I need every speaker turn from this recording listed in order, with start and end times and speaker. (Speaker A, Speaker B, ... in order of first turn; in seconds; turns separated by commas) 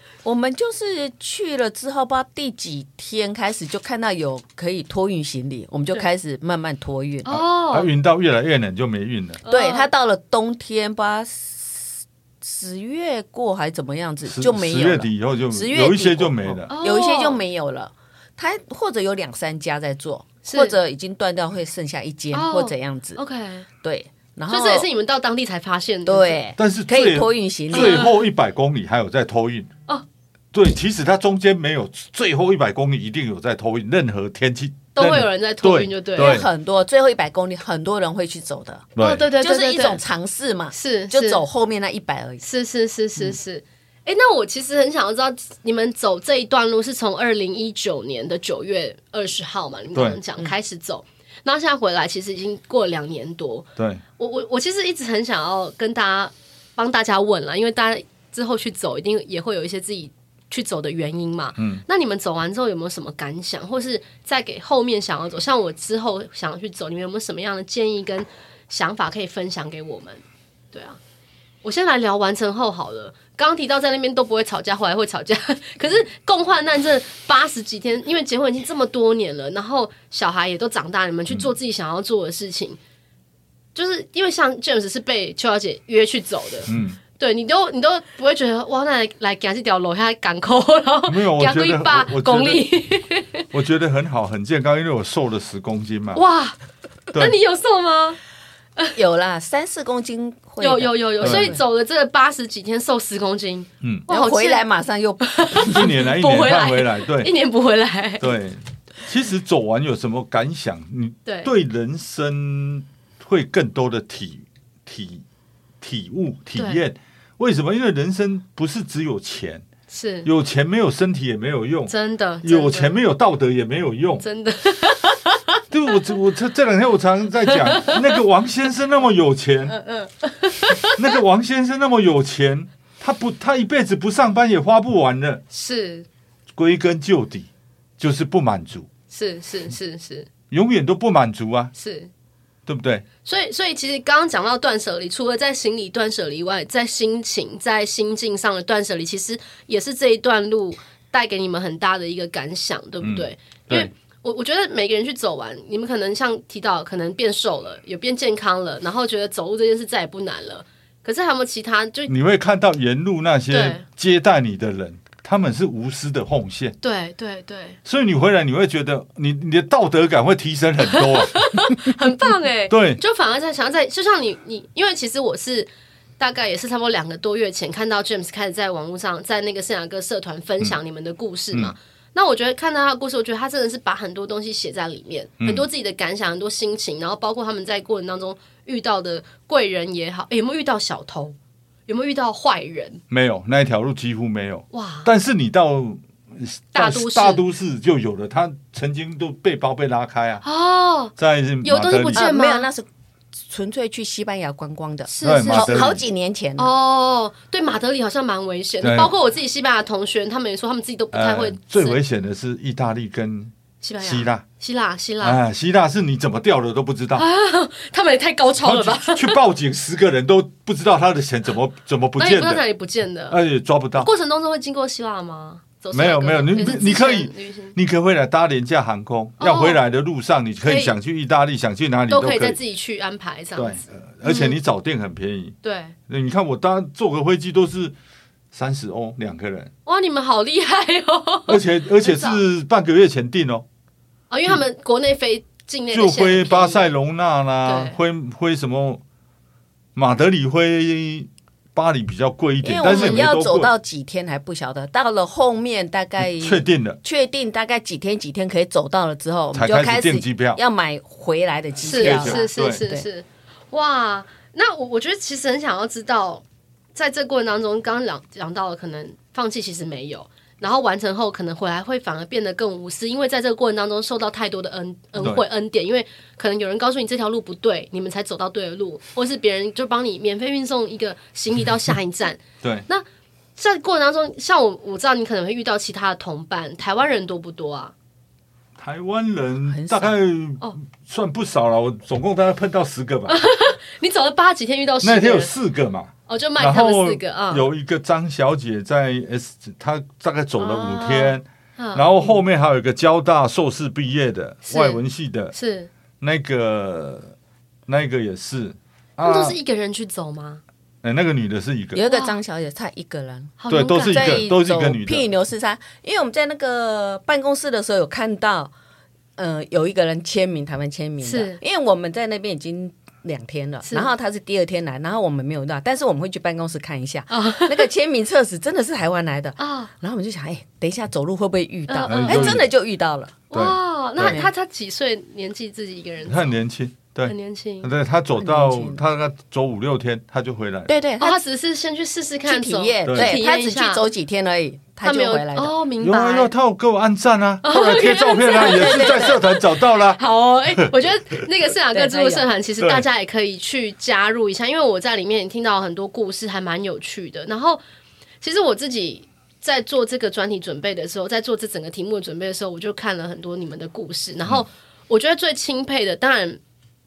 Speaker A: 0.2-7.4, Speaker B: 7.2-7.9, Speaker C: 7.7-9.4, Speaker B: 9.4-9.9, Speaker A: 9.5-23.2, Speaker C: 14.2-16.7, Speaker B: 16.7-17.4, Speaker B: 20.4-20.7, Speaker B: 22.3-23.7, Speaker A: 23.8-24.9, Speaker B: 24.5-26.4, Speaker A: 26.1-28.0, Speaker C: 26.6-29.7, Speaker B: 27.7-28.1, Speaker C: 30.5-36.5, Speaker B: 34.9-36.4, Speaker A: 36.1-42.4, Speaker C: 39.0-39.3, Speaker B: 39.0-40.0, Speaker B: 40.7-41.4, Speaker B: 42.4-71.0, Speaker C: 61.6-61.8, Speaker B: 71.6-82.8, Speaker B: 83.7-93.5, Speaker C: 86.7-87.0, Speaker C: 91.1-92.7, Speaker C: 93.5-96.2, Speaker B: 96.1-96.5, Speaker B: 97.1-98.2, Speaker A: 98.9-101.6, Speaker B: 100.6-104.6, Speaker C: 101.2-101.5, Speaker C: 103.8-104.1, Speaker A: 104.1-105.5, Speaker B: 105.2-108.3, Speaker C: 105.6-107.3, Speaker C: 108.2-115.2, Speaker B: 111.2-111.5, Speaker C: 115.8-119.7, Speaker B: 116.5-116.8, Speaker B: 119.9-120.3, Speaker C: 120.2-121.9, Speaker B: 121.9-123.0, Speaker C: 122.4-124.2, Speaker B: 124.2-125.4, Speaker C: 125.7-129.7, Speaker B: 127.5-128.2, Speaker B: 129.7-131.0, Speaker C: 130.9-135.4, Speaker B: 135.5-136.1, Speaker C: 136.6-138.9, Speaker B: 139.1-140.3, Speaker C: 140.5-141.7, Speaker B: 141.7-142.1, Speaker C: 142.7-143.0, Speaker B: 143.2-162.1, Speaker C: 153.0-153.9, Speaker C: 162.1-166.8, Speaker B: 163.5-163.8, Speaker B: 166.8-167.8, Speaker C: 167.8-171.5, Speaker B: 170.9-191.3, Speaker C: 172.7-173.0, Speaker C: 185.4-185.7, Speaker B: 191.9-193.0, Speaker C: 193.1-200.4, Speaker B: 194.7-195.1, Speaker B: 196.7-197.4, Speaker B: 200.4-202.7, Speaker C: 201.2-202.3, Speaker A: 202.1-202.8, Speaker A: 203.5-206.7, Speaker B: 205.1-206.0, Speaker C: 205.2-206.0, Speaker B: 206.6-212.0, Speaker C: 208.8-209.1, Speaker C: 211.1-214.4, Speaker B: 213.8-215.4, Speaker C: 215.2-217.2, Speaker B: 217.1-219.4, Speaker C: 218.6-222.6, Speaker B: 222.2-223.4, Speaker C: 223.3-224.1, Speaker B: 224.0-227.8, Speaker C: 225.9-232.6, Speaker B: 229.4-229.8, Speaker B: 230.6-230.9, Speaker B: 232.1-234.6, Speaker C: 233.6-235.6, Speaker B: 235.6-235.9, Speaker C: 236.1-237.9, Speaker C: 238.5-239.7, Speaker B: 239.8-242.4, Speaker C: 241.5-243.6, Speaker B: 244.3-246.9, Speaker C: 245.9-249.0, Speaker B: 247.6-248.0, Speaker C: 249.9-253.7, Speaker A: 252.6-263.1, Speaker B: 252.8-253.3, Speaker C: 256.2-257.0, Speaker C: 259.5-260.6, Speaker B: 261.8-266.4, Speaker C: 261.9-262.8, Speaker B: 266.9-283.0, Speaker C: 275.2-275.4, Speaker C: 282.6-282.9, Speaker B: 283.6-287.9, Speaker C: 288.8-293.4, Speaker A: 289.6-290.1, Speaker B: 293.3-295.5, Speaker C: 295.0-305.5, Speaker B: 296.3-297.7, Speaker B: 300.6-302.4, Speaker B: 304.7-305.0, Speaker B: 305.5-305.9, Speaker C: 306.2-307.3, Speaker C: 307.9-309.6, Speaker B: 309.2-310.6, Speaker C: 311.0-312.0, Speaker A: 311.9-318.7, Speaker B: 312.1-312.4, Speaker B: 313.6-314.5, Speaker C: 313.7-315.3, Speaker A: 319.4-333.4, Speaker B: 321.2-321.6, Speaker B: 323.8-324.1, Speaker B: 327.3-327.9, Speaker B: 329.6-329.9, Speaker B: 331.9-332.6, Speaker C: 332.1-332.7, Speaker B: 333.5-336.5, Speaker C: 333.5-334.4, Speaker A: 334.2-334.5, Speaker C: 336.3-340.9, Speaker B: 337.2-337.9, Speaker A: 338.4-339.0, Speaker A: 340.9-341.4, Speaker B: 341.2-344.1, Speaker A: 342.4-345.7, Speaker C: 343.1-343.4, Speaker B: 345.0-346.5, Speaker C: 346.0-350.2, Speaker B: 347.6-357.8, Speaker A: 348.5-349.4, Speaker A: 351.9-352.5, Speaker C: 352.8-353.0, Speaker B: 358.4-366.6